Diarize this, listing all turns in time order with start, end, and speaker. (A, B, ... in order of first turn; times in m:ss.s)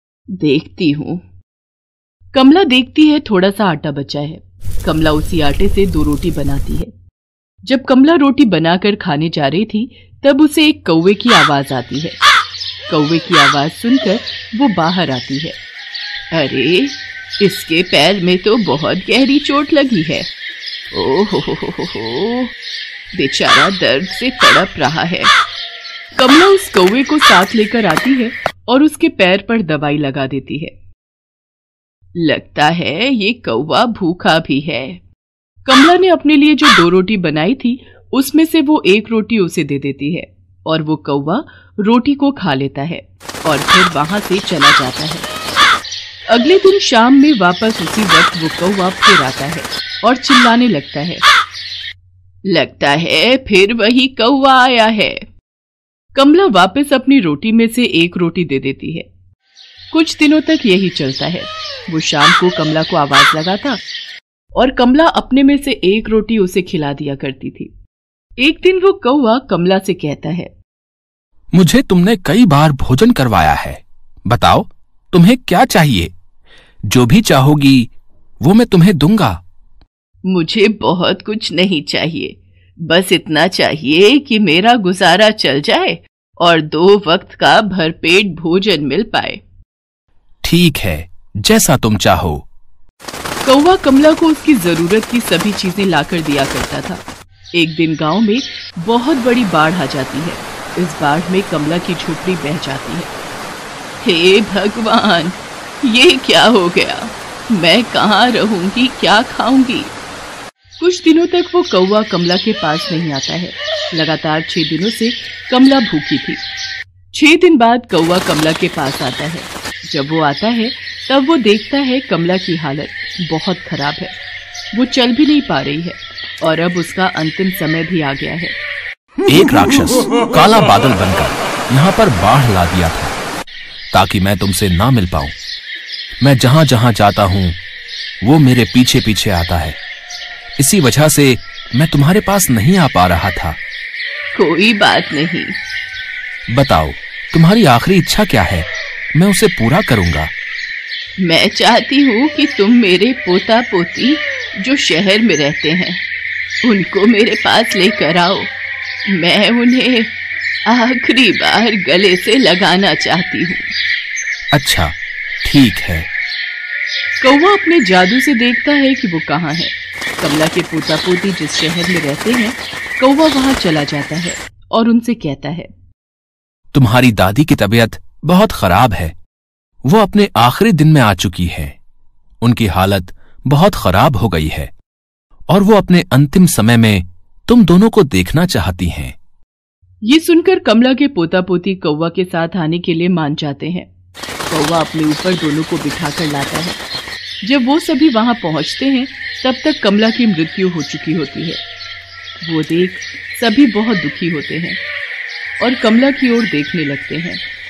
0:00.4-0:01.2 A
0:02.3-0:06.9 A
0:07.7-0:12.2 A
0:12.9-0:15.6 A
0:16.3-0:20.3 A
0:20.9-0:22.5 A
0:23.2-0:25.3 A
0:26.2-0:30.7 A
0:32.2-0:35.0 A
0:35.7-0:45.3 A
0:46.3-0:51.2 A
0:52.5-0:55.2 A
0:56.2-0:59.1 A
0:59.9-1:03.8 A
1:04.6-1:07.7 A
1:08.4-1:10.5 A
1:11.5-1:16.1 B
1:16.9-1:17.9 B
1:18.4-1:19.4 B
1:20.3-1:22.4 A
1:22.9-1:29.4 A
1:30.4-1:32.4 B
1:33.4-1:37.0 A
1:37.6-1:43.1 A
1:44.0-1:49.9 A
1:50.8-1:56.4 A
1:57.1-2:04.1 A
2:04.8-2:08.5 A
2:09.3-2:13.2 B
2:13.9-2:15.4 B
2:16.2-2:17.6 B
2:18.2-2:19.8 B
2:20.6-2:23.6 B
2:24.4-2:25.5 A
2:26.5-2:30.3 B
2:31.2-2:36.0 A
2:36.6-2:38.5 A
2:39.1-2:40.1 A
2:40.7-2:43.7 A
2:44.5-2:46.1 B
2:47.2-2:55.7 A
2:56.7-2:59.2 B
2:59.9-3:01.8 B
3:02.4-3:04.7 B
3:05.5-3:09.2 B
3:10.0-3:13.9 A
3:14.5-3:16.8 A
3:17.4-3:21.6 A
3:22.4-3:24.8 A
3:25.6-3:27.4 A